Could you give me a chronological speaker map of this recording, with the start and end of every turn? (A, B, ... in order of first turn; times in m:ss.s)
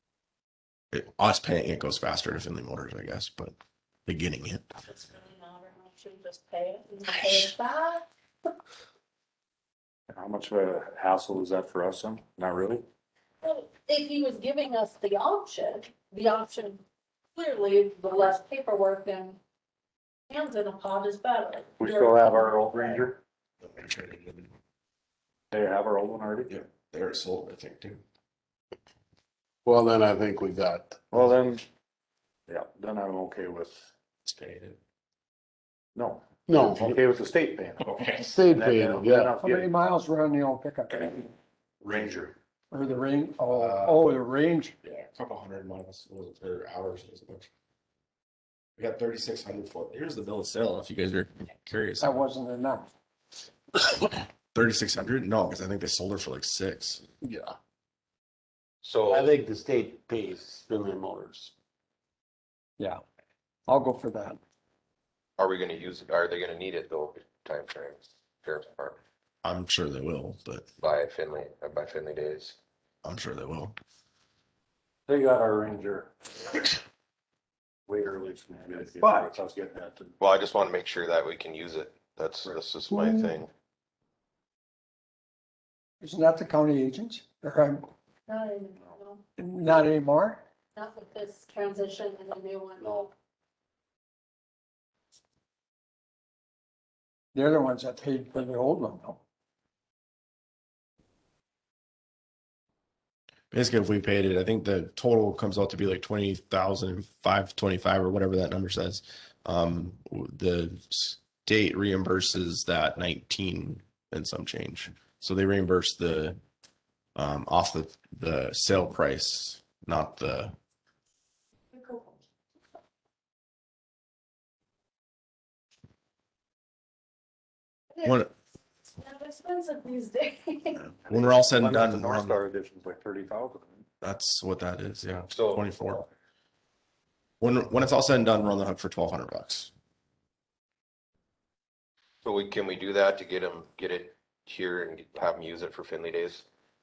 0:00.9-0:03.5 A
0:04.0-0:04.6 A
0:04.8-0:08.0 B
0:10.1-0:12.8 C
0:13.4-0:16.8 B
0:17.3-0:19.4 B
0:20.3-0:22.7 B
0:21.8-0:23.2 C
0:23.6-0:24.5 A
0:25.5-0:26.5 C
0:26.5-0:28.0 A
0:29.6-0:31.1 D
0:31.1-0:31.6 C
0:32.5-0:33.9 C
0:34.2-0:34.8 A
0:35.9-0:37.9 C
0:36.5-0:37.0 D
0:37.8-0:38.3 A
0:38.2-0:39.4 D
0:38.4-0:39.7 C
0:39.4-0:41.2 E
0:41.8-0:42.3 C
0:42.7-0:44.8 E
0:43.5-0:44.1 A
0:44.8-0:47.5 A
0:48.8-0:52.2 A
0:52.0-0:52.9 E
0:54.5-0:57.0 A
0:57.2-0:57.5 D
0:58.8-0:59.3 F
0:59.1-1:01.5 D
1:03.7-1:04.4 E
1:05.4-1:09.0 F
1:09.4-1:10.7 A
1:10.8-1:12.6 F
1:13.0-1:13.8 A
1:15.1-1:16.8 C
1:17.9-1:20.1 C
1:19.0-1:19.3 E
1:20.2-1:23.5 F
1:22.9-1:23.3 E
1:26.0-1:27.9 E
1:28.3-1:29.2 B
1:29.4-1:30.4 E
1:30.7-1:33.1 B
1:37.3-1:39.2 E
1:43.5-1:56.4 A
1:57.2-2:00.5 A
2:01.7-2:02.2 B
2:07.9-2:08.3 B
2:08.0-2:08.3 A
2:09.0-2:10.8 B
2:11.1-2:12.4 A
2:11.1-2:13.8 C
2:14.0-2:16.0 A
2:15.3-2:15.6 F
2:17.4-2:19.7 A
2:22.2-2:26.4 F